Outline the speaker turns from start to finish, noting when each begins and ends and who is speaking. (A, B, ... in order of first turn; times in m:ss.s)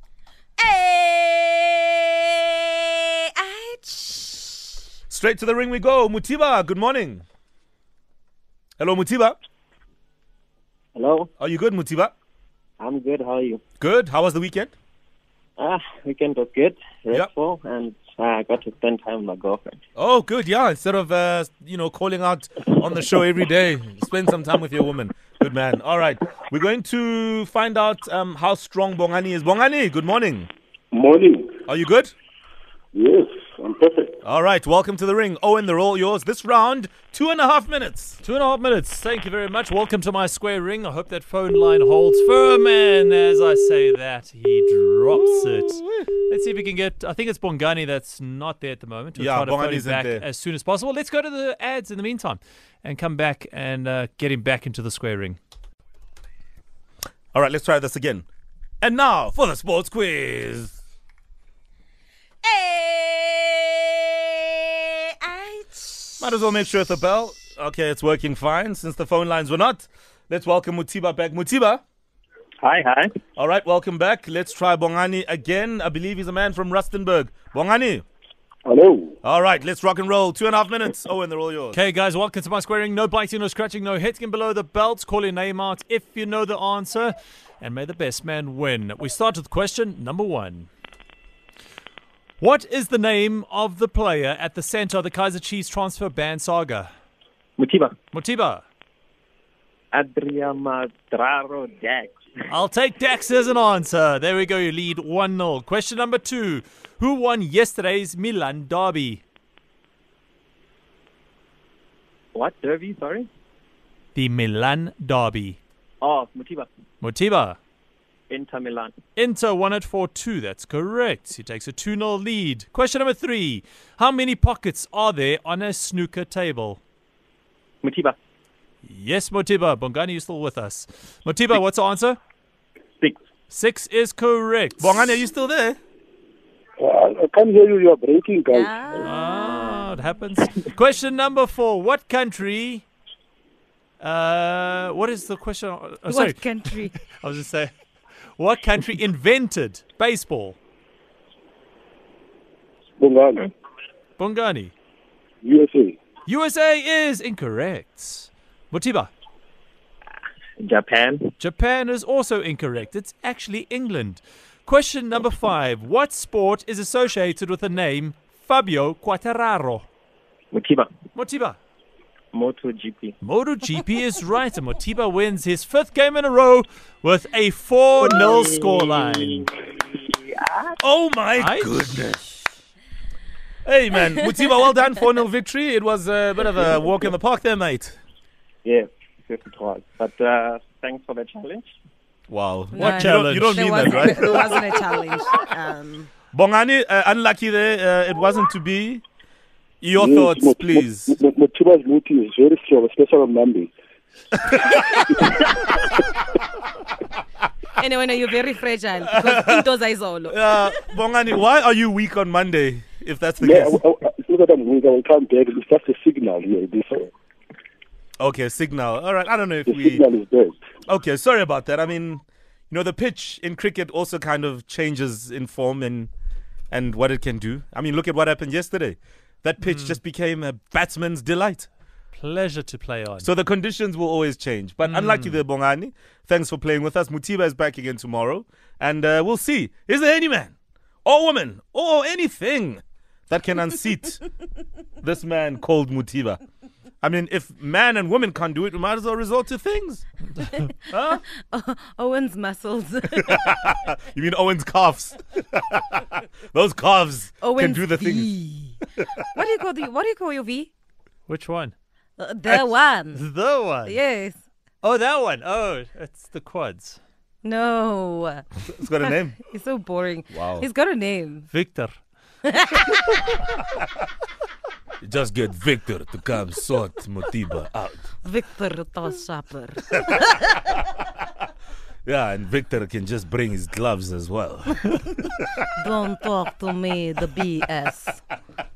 0:00.6-0:04.8 A
0:05.1-0:07.2 B
0:08.8-0:09.4 B
0:10.9-0:11.3 C
0:11.4-0:12.1 B
0:12.8-0:13.6 C
0:13.8-0:14.7 B
0:15.6-0:19.8 C
0:20.0-0:30.5 B
0:30.9-0:31.6 D
0:31.7-0:32.1 B
0:32.9-0:34.2 D
0:34.2-0:38.2 B
0:38.2-0:55.4 E
0:45.2-0:46.1 B
0:49.2-0:50.2 B
0:57.3-0:58.2 B
0:58.8-1:00.8 B
1:02.4-1:06.2 A
1:06.2-1:11.8 B
1:12.6-1:13.1 C
1:13.4-1:18.0 B
1:18.6-1:19.1 D
1:19.2-1:21.8 B
1:21.7-1:30.7 E
1:32.4-1:36.9 E
1:37.6-1:37.9 C
1:38.1-1:38.6 E
1:39.9-1:42.1 C
1:42.5-1:49.2 E
1:52.3-1:53.3 C
1:54.1-1:55.6 E
1:56.0-1:56.7 C
1:57.0-1:57.6 E
1:58.3-1:58.9 C
1:59.2-2:06.8 E
2:07.8-2:08.2 C
2:08.8-2:12.2 E
2:13.5-2:15.1 E
2:14.8-2:15.8 B
2:16.8-2:18.7 D
2:18.5-2:19.9 A
2:19.0-2:22.9 E
2:24.0-2:27.7 E
2:26.1-2:26.9 A
2:28.3-2:30.6 E
2:33.0-2:33.5 D
2:34.2-2:34.7 E
2:35.4-2:36.0 D
2:36.2-2:39.1 E
2:40.6-2:41.3 C
2:41.4-2:49.8 E
2:50.5-2:50.9 C
2:51.1-2:51.6 E
2:52.3-2:53.2 C
2:53.2-2:59.5 E
2:59.9-3:00.8 C
3:00.8-3:02.3 B
3:01.4-3:01.7 E
3:03.6-3:08.0 B
3:08.6-3:11.7 C
3:12.3-3:14.6 B
3:12.7-3:16.1 A
3:12.8-3:14.3 E
3:16.3-3:19.0 B
3:19.8-3:21.2 B
3:19.9-3:23.7 D
3:24.5-3:24.9 B
3:24.6-3:25.5 A
3:27.7-3:30.8 A
3:29.1-3:29.6 B
3:30.3-3:33.8 B
3:33.4-3:37.1 D
3:38.2-3:40.0 B
3:39.6-3:40.6 D
3:40.9-3:46.1 B
3:46.7-3:51.7 B
3:49.6-3:50.0 E
3:52.1-3:53.3 E
3:53.2-4:00.5 B
3:54.8-3:55.4 E
4:01.0-4:04.2 B
4:05.0-4:06.4 B
4:07.0-4:10.0 B
4:10.5-4:13.7 A
4:13.2-4:18.3 B
4:17.4-4:20.7 A
4:21.3-4:21.7 E
4:22.2-4:23.2 A
4:23.1-4:24.0 E
4:23.8-4:24.4 A
4:24.8-4:27.0 E
4:27.4-4:28.5 A
4:28.7-4:29.4 B
4:29.0-4:31.5 A
4:30.3-4:30.7 B
4:31.5-4:32.0 E
4:32.4-4:33.2 A
4:35.0-4:38.0 B
4:38.2-4:40.7 A
4:42.0-4:45.6 B
4:45.8-4:48.2 A